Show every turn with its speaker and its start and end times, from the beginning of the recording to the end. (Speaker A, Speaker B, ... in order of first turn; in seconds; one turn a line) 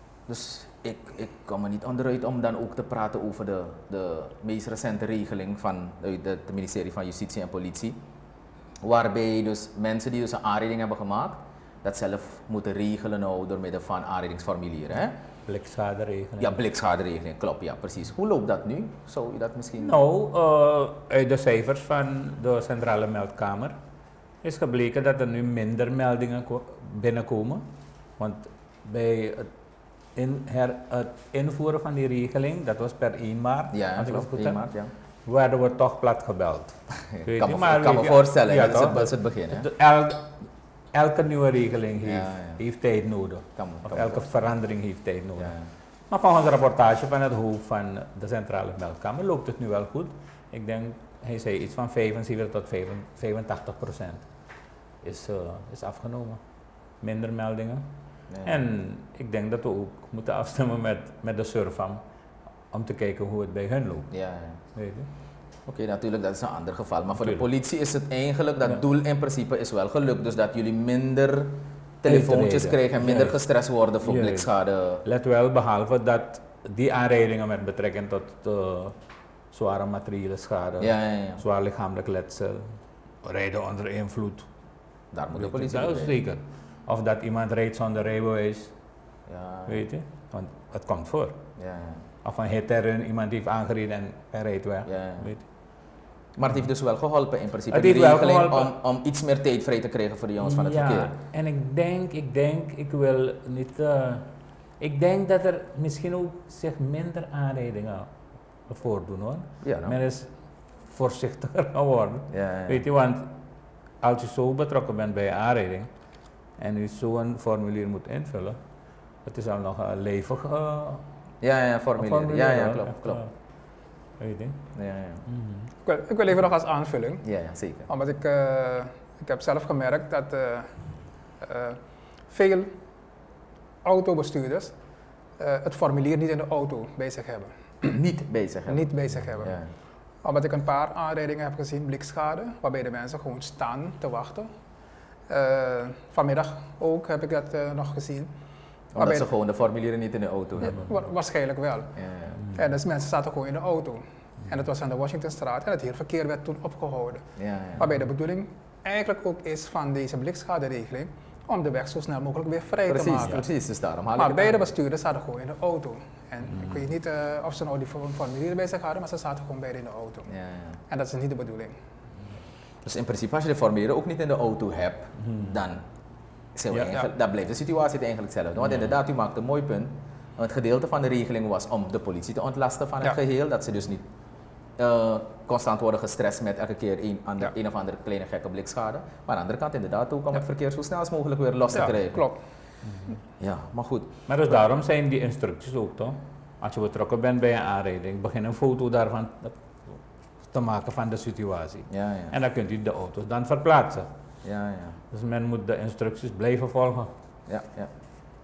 Speaker A: 0.3-8.0
Speaker A: 8.8-15.2
Speaker B: 15.4-16.6
Speaker A: 16.4-20.0
Speaker B: 19.8-23.8
Speaker B: 24.4-27.6
Speaker B: 28.2-29.5
Speaker B: 30.1-34.6
Speaker A: 33.7-34.9
Speaker B: 35.2-45.6
Speaker A: 37.1-39.6
Speaker A: 42.0-42.6
Speaker A: 43.5-44.2
Speaker A: 45.4-45.7
Speaker B: 46.1-54.2
Speaker B: 55.0-56.4
Speaker B: 57.0-57.8
Speaker A: 58.3-58.6
Speaker B: 58.4-62.0
Speaker B: 62.7-64.1
Speaker A: 64.1-64.6
Speaker B: 64.7-65.1
Speaker A: 65.7-75.0
Speaker B: 67.2-67.4
Speaker B: 72.0-73.4
Speaker B: 74.0-74.5
Speaker B: 75.0-79.0
Speaker B: 79.5-84.5
Speaker A: 80.8-81.4
Speaker A: 85.1-86.2
Speaker B: 85.3-88.7
Speaker A: 89.3-89.8
Speaker B: 89.7-91.4
Speaker A: 91.6-92.0
Speaker B: 92.2-95.4
Speaker A: 94.8-95.3
Speaker A: 96.3-101.1
Speaker B: 97.7-98.7
Speaker B: 100.4-108.1
Speaker B: 108.7-110.3
Speaker A: 109.6-110.0
Speaker B: 110.8-113.3
Speaker A: 112.3-112.8
Speaker B: 114.0-115.9
Speaker B: 116.6-118.6
Speaker B: 119.2-121.0
Speaker A: 121.4-123.2
Speaker B: 122.0-123.3
Speaker B: 124.2-124.6
Speaker A: 124.7-125.2
Speaker B: 125.3-125.7
Speaker C: 125.8-127.2
Speaker A: 127.2-127.9
Speaker C: 127.9-130.7
Speaker C: 131.4-132.7
Speaker C: 133.8-134.7
Speaker C: 135.4-137.9
Speaker A: 137.8-139.7
Speaker C: 138.7-139.5
Speaker C: 140.2-144.5
Speaker C: 145.3-148.3
Speaker A: 148.9-150.9
Speaker C: 149.0-149.3
Speaker B: 150.6-150.9
Speaker C: 150.6-151.9
Speaker A: 151.9-152.4
Speaker C: 152.5-157.2
Speaker A: 157.4-157.8
Speaker C: 157.8-163.4
Speaker A: 162.9-164.7
Speaker C: 164.2-170.3
Speaker B: 166.5-166.8
Speaker A: 170.3-170.8
Speaker C: 170.9-171.8
Speaker A: 172.8-175.8
Speaker B: 175.2-175.6
Speaker A: 176.5-184.1
Speaker B: 176.7-177.0
Speaker B: 178.6-178.9
Speaker A: 184.8-192.2
Speaker C: 191.7-192.4
Speaker B: 192.8-193.2
Speaker A: 193.4-194.1
Speaker B: 194.3-204.1
Speaker A: 201.9-202.3
Speaker A: 204.4-205.0
Speaker B: 205.1-207.1
Speaker A: 207.5-207.9